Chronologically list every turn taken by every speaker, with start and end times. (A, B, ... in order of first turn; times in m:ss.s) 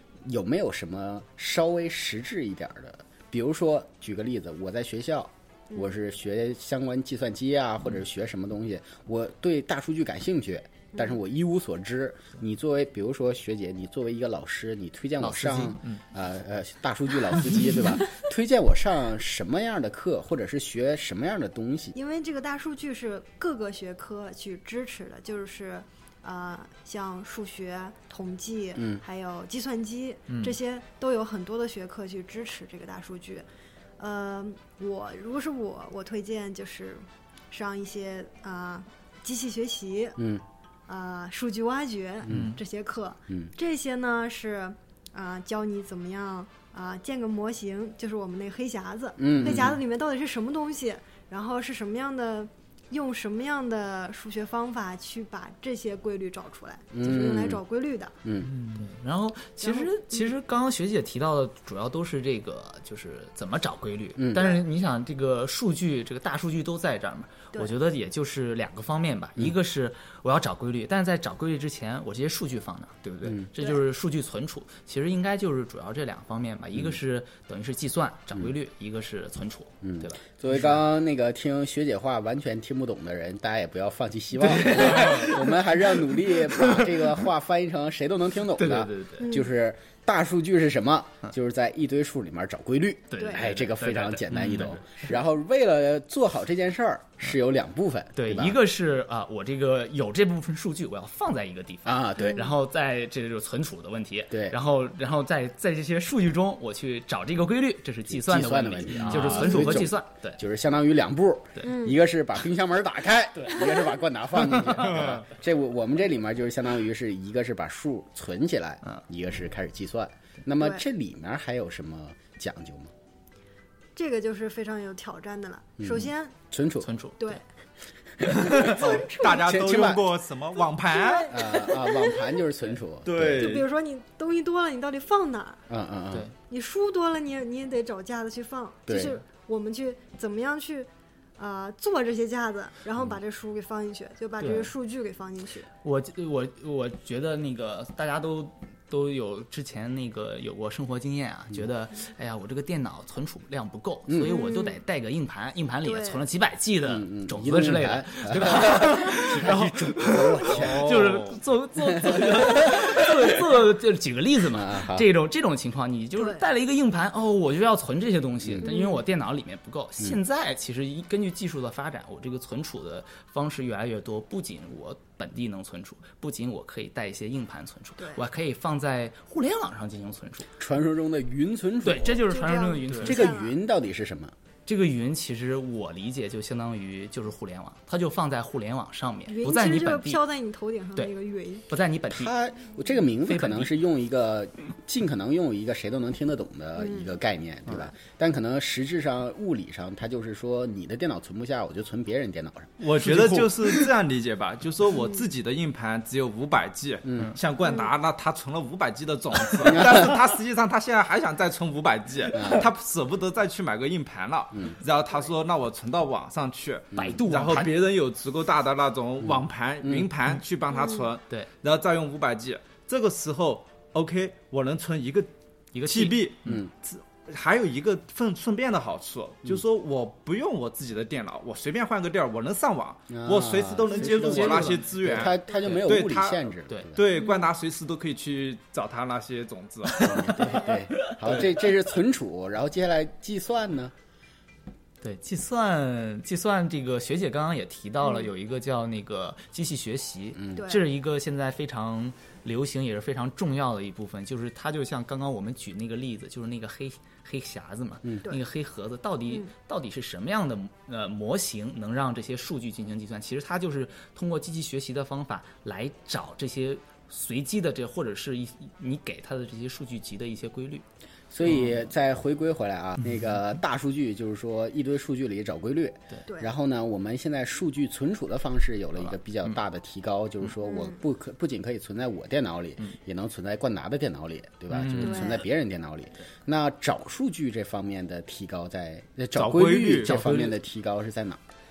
0:00.2-0:22.0 A
0:15.2-0:16.0 B
0:22.0-0:33.5 C
0:28.8-0:29.0 A
0:30.3-0:30.6 B
0:34.0-0:40.2 C
0:40.2-0:40.4 A
0:40.9-0:58.2 C
0:42.3-0:42.6 B
0:49.2-0:49.8 A
0:56.9-0:57.6 A
0:58.2-0:58.5 A
0:58.4-1:20.2 B
0:59.6-1:00.3 C
1:04.2-1:04.5 A
1:04.4-1:04.6 C
1:13.2-1:13.5 A
1:19.8-1:38.6 A
1:24.5-1:25.4 B
1:26.5-1:26.9 B
1:28.6-1:29.3 B
1:29.2-1:29.5 C
1:33.1-1:35.1 B
1:33.2-1:33.4 C
1:38.2-1:50.4 B
1:41.8-1:42.5 A
1:44.3-1:44.6 A
1:48.1-2:02.9 A
1:49.1-1:49.4 D
1:51.6-1:52.0 C
1:54.8-1:55.1 B
2:04.0-2:06.4 C
2:05.8-2:06.9 A
2:06.8-2:07.4 B
2:08.2-2:10.1 A
2:08.5-2:11.5 D
2:08.5-2:09.5 C
2:10.8-2:12.3 C
2:11.3-2:13.6 A
2:13.0-2:13.7 D
2:13.4-2:15.6 C
2:15.7-2:16.3 A
2:16.5-2:25.7 C
2:18.9-2:19.2 A
2:24.4-2:24.7 B
2:25.8-3:00.5 B
2:34.1-2:34.4 A
2:34.2-2:34.8 C
2:35.8-2:36.2 C
2:36.9-2:41.0 A
2:40.5-2:41.4 D
2:42.0-2:43.0 A
2:44.5-2:45.1 A
2:46.2-2:46.4 C
2:48.4-2:48.7 A
2:48.6-2:49.0 C
2:58.0-2:58.2 C
3:00.6-3:02.2 A
3:01.8-3:03.3 B
3:02.2-3:03.6 C
3:03.0-3:04.4 A
3:04.7-3:10.2 B
3:09.3-3:11.6 C
3:11.7-3:12.3 B
3:12.1-3:22.8 A
3:13.3-3:13.7 B
3:16.8-3:17.1 C
3:22.8-3:45.3 D
3:23.0-3:23.5 B
3:25.0-3:25.2 C
3:29.7-3:30.1 A
3:32.3-3:32.6 A
3:37.0-3:37.8 B
3:39.8-3:40.1 A
3:40.7-3:41.1 C
3:45.7-3:46.6 B
3:45.8-4:00.3 D
3:53.1-3:57.1 A
3:54.0-3:54.9 B
3:55.6-3:55.9 B
3:57.2-3:57.5 C
4:00.0-4:01.4 B
4:00.0-4:03.9 A
4:05.0-4:30.8 B
4:08.0-4:08.3 C
4:10.4-4:10.6 A
4:10.6-4:10.8 C
4:31.3-4:51.4 A
4:40.6-4:41.0 C
4:44.7-4:45.2 B
4:45.0-4:45.4 C
4:49.4-4:50.2 D
4:50.0-4:50.6 B